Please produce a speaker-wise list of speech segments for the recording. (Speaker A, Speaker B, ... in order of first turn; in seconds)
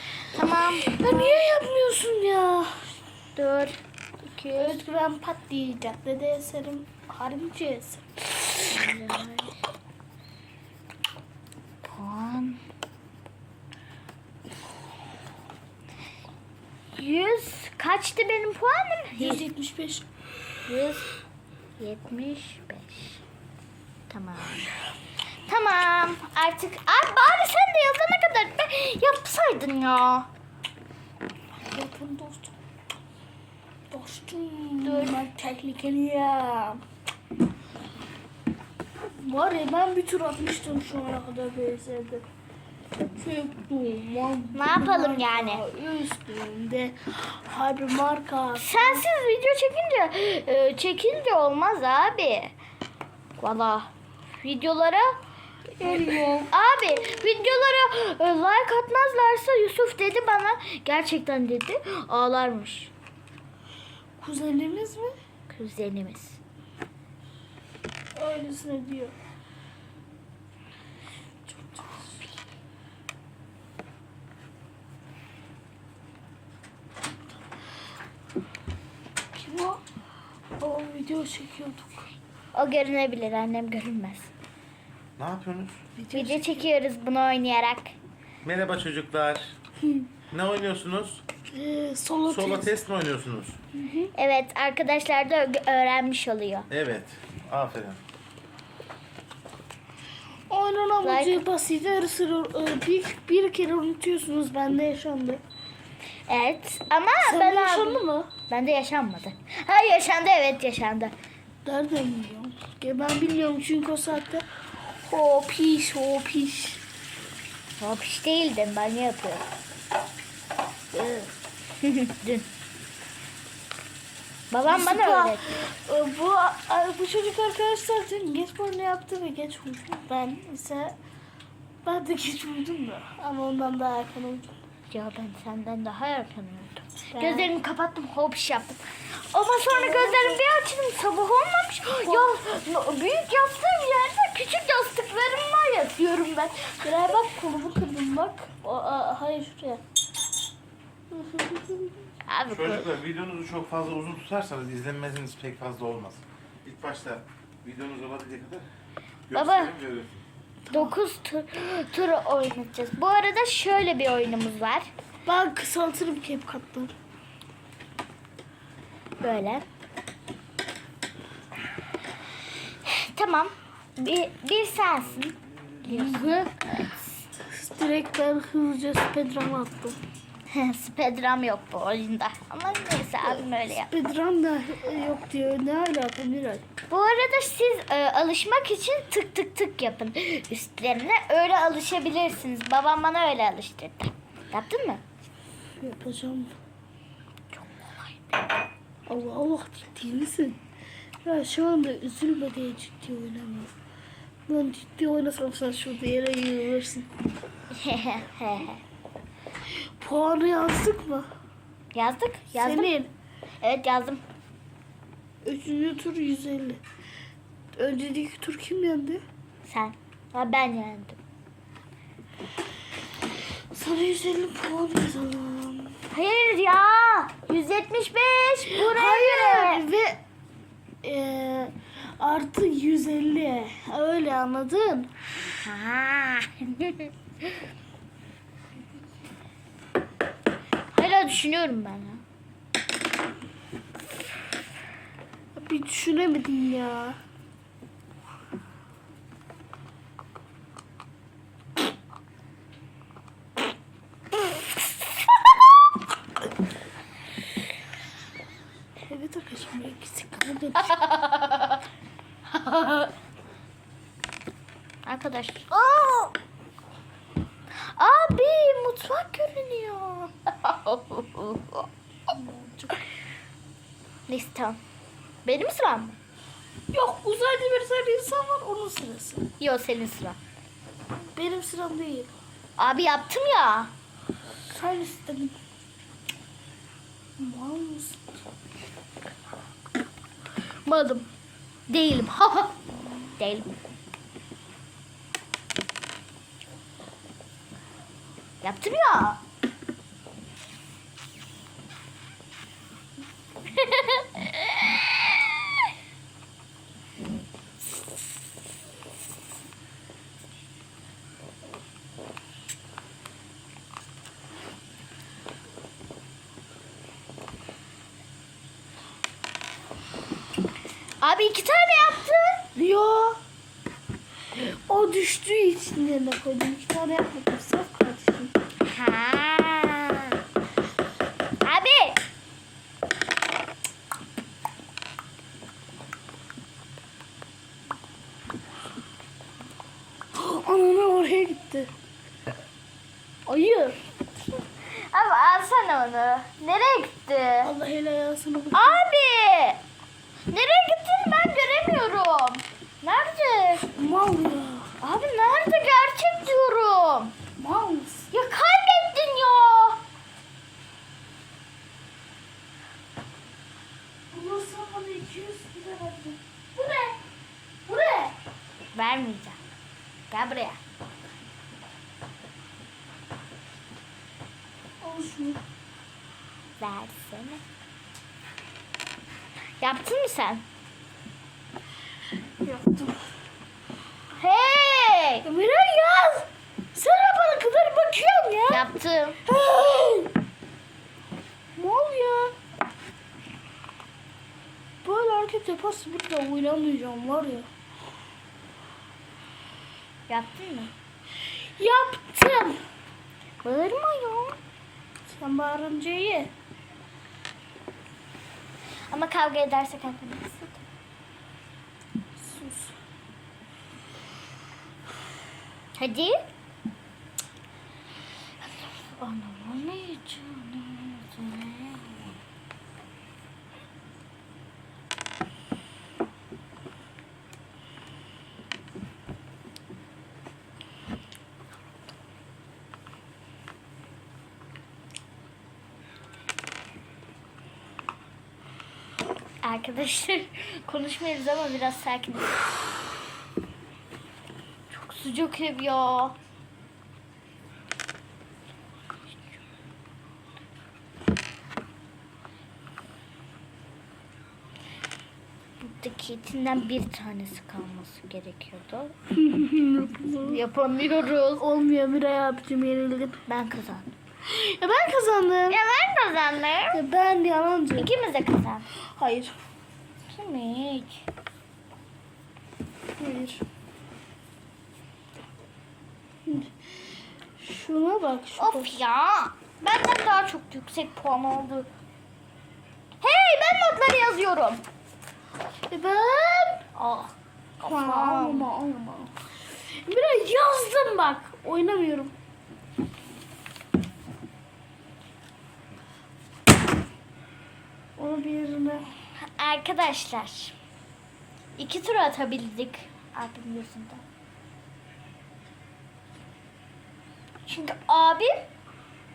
Speaker A: 0.3-1.4, 3.4-3.8, 4.3-4.8, 8.6-9.5, 11.8-12.6, 16.9-19.4, 20.6-21.1, 21.8-23.2, 24.1-24.6, 25.4-30.3, 34.8-35.2, 44.5-45.6, 48.5-52.5, 53.4-55.1, 55.9-62.9, 65.5-66.4, 82.5-84.3, 86.1-87.9, 94.1-96.7, 101.0-101.4, 106.3-111.1, 117.8-119.5, 121.8-122.5, 124.5-125.4, 134.9-147.1, 152.3-152.9, 159.3-159.8, 160.7-164.9, 169.2-169.6, 172.8-176.6, 180.5-183.9, 186.9-195.0, 197.5-198.4, 207.7-208.8, 211.9-212.9, 213.6-214.2, 219.6-221.2, 226.1-229.8, 235.6-237.1, 240.9-242.2, 260.9-261.8, 262.5-263.1, 265.0-266.3, 267.9-271.9, 274.3-274.8, 275.4-276.2, 279.6-280.4, 282.8-283.9, 290.8-291.3, 291.9-292.8, 293.4-293.7, 298.6-299.4, 303.8-305.0, 321.2-322.6, 328.8-330.4, 331.6-332.2, 344.8-347.7, 348.7-349.8, 350.5-353.9, 355.0-357.3, 358.3-360.0, 368.9-369.6, 370.3-370.8, 376.8-377.6, 379.8-380.6, 384.4-385.4, 388.7-389.4, 400.3-400.9, 403.6-404.6, 409.1-410.8, 416.0-416.4, 418.6-422.4, 439.6-442.6, 444.9-446.4, 455.8-459.1, 460.4-461.6, 463.5-464.1, 465.7-467.0, 467.9-468.9, 470.3-471.2, 478.6-481.9, 483.2-484.8, 486.9-488.7, 499.6-500.7, 501.8-504.2, 507.6-508.6
Speaker B: 0.6-2.9, 4.5-8.0, 19.2-20.0, 31.6-32.6, 33.9-36.8, 39.2-42.2, 43.2-49.0, 55.8-56.5, 64.2-65.2, 68.1-69.1, 71.5-72.1, 79.3-79.8, 80.6-82.1, 86.0-86.7, 91.5-92.7, 93.7-94.1, 100.5-105.4, 107.2-108.3, 111.6-114.5, 115.0-116.8, 120.9-121.3, 124.6-131.0, 131.8-134.6, 137.1-137.5, 139.7-140.4, 142.0-142.4, 146.8-149.8, 151.1-151.9, 160.7-160.9, 165.2-166.9, 175.9-176.6, 177.4-180.0, 183.2-186.6, 195.8-196.5, 199.1-200.6, 201.2-203.7, 204.5-207.1, 210.0-211.3, 212.6-213.1, 215.4-216.8, 217.7-219.2, 223.3-226.0, 228.7-230.2, 231.0-235.1, 245.5-247.2, 259.1-261.0, 272.3-273.0, 276.9-279.5, 281.3-282.3, 284.5-285.6, 287.4-288.4, 322.8-323.4, 324.5-328.5, 340.3-341.9, 343.4-344.0, 347.6-349.0, 353.9-354.9, 357.6-358.3, 364.3-367.2, 367.9-368.3, 375.0-375.6, 382.6-383.3, 385.4-388.9, 389.4-390.3, 391.8-392.5, 395.0-397.7, 401.6-402.8, 405.3-406.5, 412.4-412.9, 459.3-460.6, 461.6-463.4, 464.5-465.8, 466.9-468.1, 469.1-469.5, 473.2-473.6, 476.4-477.0, 477.6-479.0, 485.9-486.9, 487.8-489.3, 490.0-492.3, 498.2-499.1
Speaker C: 85.2-85.8, 88.4-89.5, 90.3-91.2, 92.3-93.6, 96.7-98.0, 152.5-158.7, 159.3-160.2